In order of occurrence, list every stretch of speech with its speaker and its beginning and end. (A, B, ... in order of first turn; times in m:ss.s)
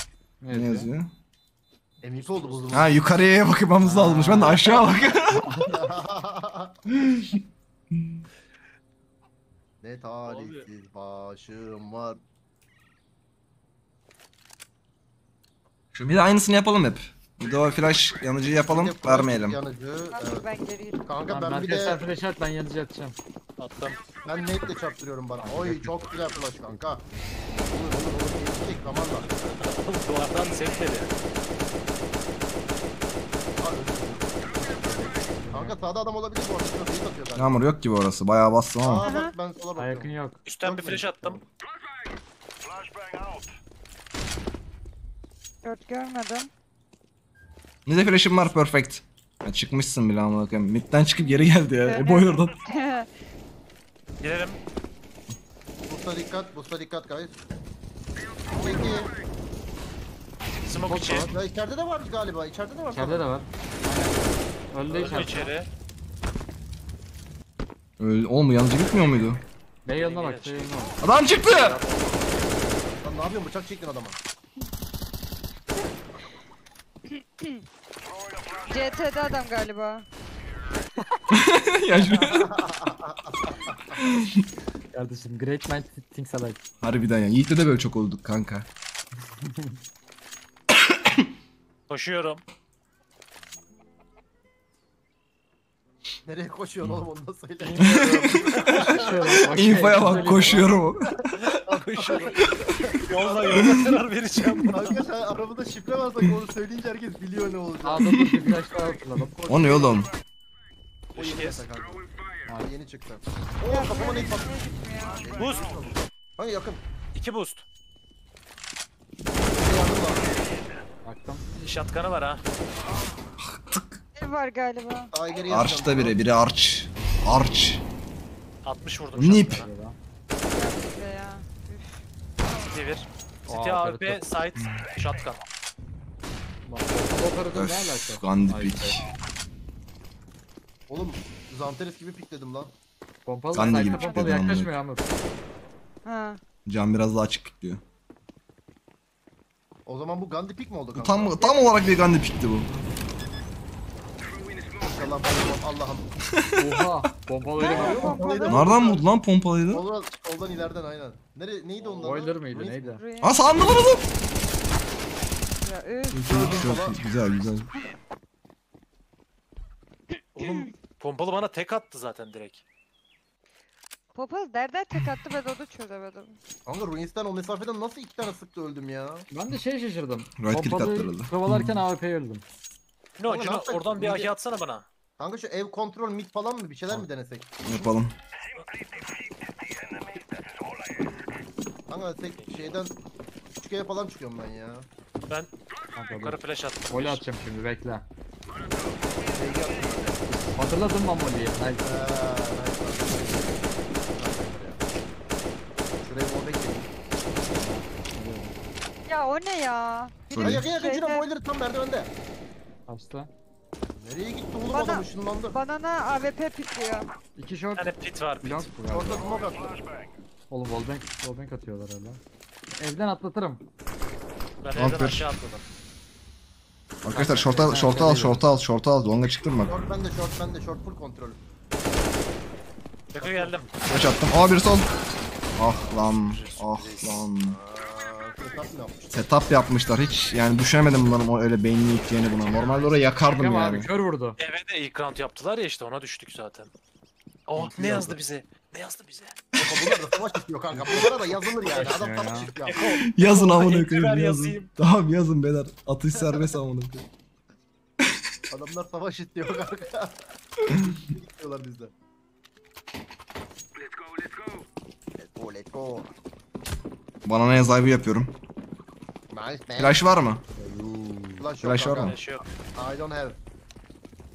0:00.4-0:00.9 A
0:00.5-0:01.1 B
0:02.0-0:02.9 C
0:02.1-0:02.9 D
0:02.7-0:05.8 B
0:03.8-0:04.6 A
0:04.4-0:05.0 D
0:05.7-0:06.7 C
0:06.9-0:07.4 B
0:07.9-0:08.2 B
0:09.8-0:12.2 C
0:10.2-0:10.7 D
0:15.9-0:19.6 B
0:18.6-0:20.4 C
0:20.1-0:21.0 E
0:21.0-0:22.0 C
0:21.3-0:23.2 A
0:23.6-0:24.0 D
0:24.2-0:27.0 C
0:25.4-0:25.9 A
0:27.7-0:29.3 C
0:29.2-0:31.1 D
0:33.6-0:34.4 C
0:34.6-0:35.7 A
0:35.5-0:37.6 C
0:37.3-0:39.0 B
0:38.8-0:41.4 C
0:39.0-0:39.3 E
0:39.8-0:40.4 A
0:40.4-0:41.4 D
0:45.6-0:46.5 E
0:47.8-0:52.5 B
0:51.8-0:53.1 E
0:54.2-0:54.6 D
0:55.8-0:57.4 C
0:58.5-0:59.1 C
1:00.6-1:01.3 D
1:00.7-1:01.3 A
1:01.1-1:03.3 C
1:02.9-1:05.5 A
1:04.9-1:05.5 C
1:04.9-1:05.7 D
1:08.0-1:09.4 B
1:09.8-1:11.0 A
1:09.9-1:12.4 D
1:11.0-1:11.8 B
1:13.0-1:14.2 C
1:17.1-1:17.6 E
1:18.6-1:20.0 E
1:21.3-1:22.5 B
1:22.2-1:24.0 C
1:24.0-1:24.4 B
1:24.9-1:26.6 A
1:26.8-1:28.7 B
1:29.4-1:29.8 A
1:30.9-1:31.2 B
1:31.9-1:32.4 D
1:36.2-1:43.9 C
1:37.8-1:38.5 B
1:38.5-1:39.0 D
1:38.7-1:40.7 A
1:39.5-1:41.6 B
1:41.4-1:42.4 D
1:42.6-1:42.9 B
1:43.0-1:45.0 D
1:43.5-1:43.8 B
1:44.6-1:48.1 C
1:47.8-1:49.3 A
1:48.0-1:48.5 B
1:49.3-1:50.0 C
1:49.5-1:50.1 B
1:51.1-1:56.8 C
1:51.1-1:51.6 D
1:53.7-1:55.4 E
1:55.4-1:55.7 D
1:57.1-1:57.6 D
1:59.5-2:00.4 C
2:01.0-2:01.4 A
2:01.6-2:02.4 D
2:03.4-2:04.0 B
2:04.1-2:05.1 E
2:05.1-2:06.2 C
2:05.5-2:07.8 B
2:08.6-2:09.7 D
2:09.1-2:09.6 B
2:09.4-2:10.0 A
2:10.5-2:12.7 E
2:12.7-2:15.4 D
2:13.5-2:14.2 A
2:14.6-2:14.8 B
2:16.6-2:19.1 A
2:17.5-2:19.0 B
2:20.9-2:22.7 C
2:23.2-2:25.1 A
2:23.5-2:24.7 B
2:23.6-2:24.4 E
2:26.0-2:26.4 E
2:26.6-2:27.8 B
2:29.8-2:31.4 C
2:30.9-2:32.7 B
2:31.4-2:31.6 E
2:34.8-2:36.1 C
2:36.4-2:36.8 B
2:36.6-2:38.6 A
2:37.6-2:38.8 E
2:37.6-2:39.2 C
2:38.4-2:39.8 B
2:39.7-2:43.0 C
2:41.8-2:43.0 A
2:43.0-2:43.4 E
2:43.2-2:44.0 B
2:45.6-2:46.6 E
2:46.1-2:47.7 B
2:46.2-2:47.0 C
2:50.4-2:50.7 E
2:50.4-2:52.6 D
2:54.1-2:56.4 E
2:56.6-2:59.3 C
2:59.3-3:02.4 A
3:00.4-3:01.8 B
3:03.2-3:04.8 D
3:03.2-3:04.3 C
3:05.2-3:07.9 C
3:07.6-3:08.1 B
3:11.9-3:13.0 C
3:12.4-3:12.8 D
3:13.6-3:14.9 C
3:16.0-3:16.4 A
3:16.1-3:17.2 D
3:16.9-3:18.0 A
3:19.2-3:20.4 C
3:20.4-3:21.8 A
3:21.8-3:24.8 C
3:26.0-3:26.9 C
3:27.5-3:28.6 A
3:29.1-3:31.3 E
3:30.3-3:32.1 C
3:30.4-3:30.6 B
3:32.9-3:33.3 A
3:33.9-3:35.6 C
3:34.7-3:37.1 E
3:37.4-3:37.9 A
3:37.8-3:38.7 D
3:38.4-3:39.3 A
3:38.9-3:39.8 C
3:40.5-3:42.2 A
3:42.7-3:43.6 A
3:44.6-3:45.6 D
3:44.7-3:45.2 B
3:47.0-3:49.7 B
3:47.1-3:48.5 A
3:49.6-3:51.4 C
3:53.1-3:53.8 D
3:53.2-3:53.6 C
3:53.8-3:54.9 B
3:55.6-3:57.6 B
3:55.7-3:56.0 C
3:56.1-3:57.3 D
3:57.4-3:59.4 C
3:59.1-4:03.9 B
4:02.5-4:03.1 C
4:03.3-4:04.4 A
4:04.4-4:06.7 D
4:07.5-4:09.4 D
4:07.6-4:08.2 C
4:09.5-4:10.0 B
4:09.6-4:12.8 C
4:11.7-4:12.5 A
4:12.6-4:14.7 D
4:13.0-4:17.0 B
4:16.1-4:16.6 C
4:18.5-4:21.9 C
4:25.2-4:26.1 C
4:27.2-4:28.3 B
4:29.3-4:30.0 C
4:29.8-4:30.4 B
4:30.5-4:31.5 A
4:31.4-4:33.4 C
4:31.6-4:32.2 B
4:31.9-4:32.4 D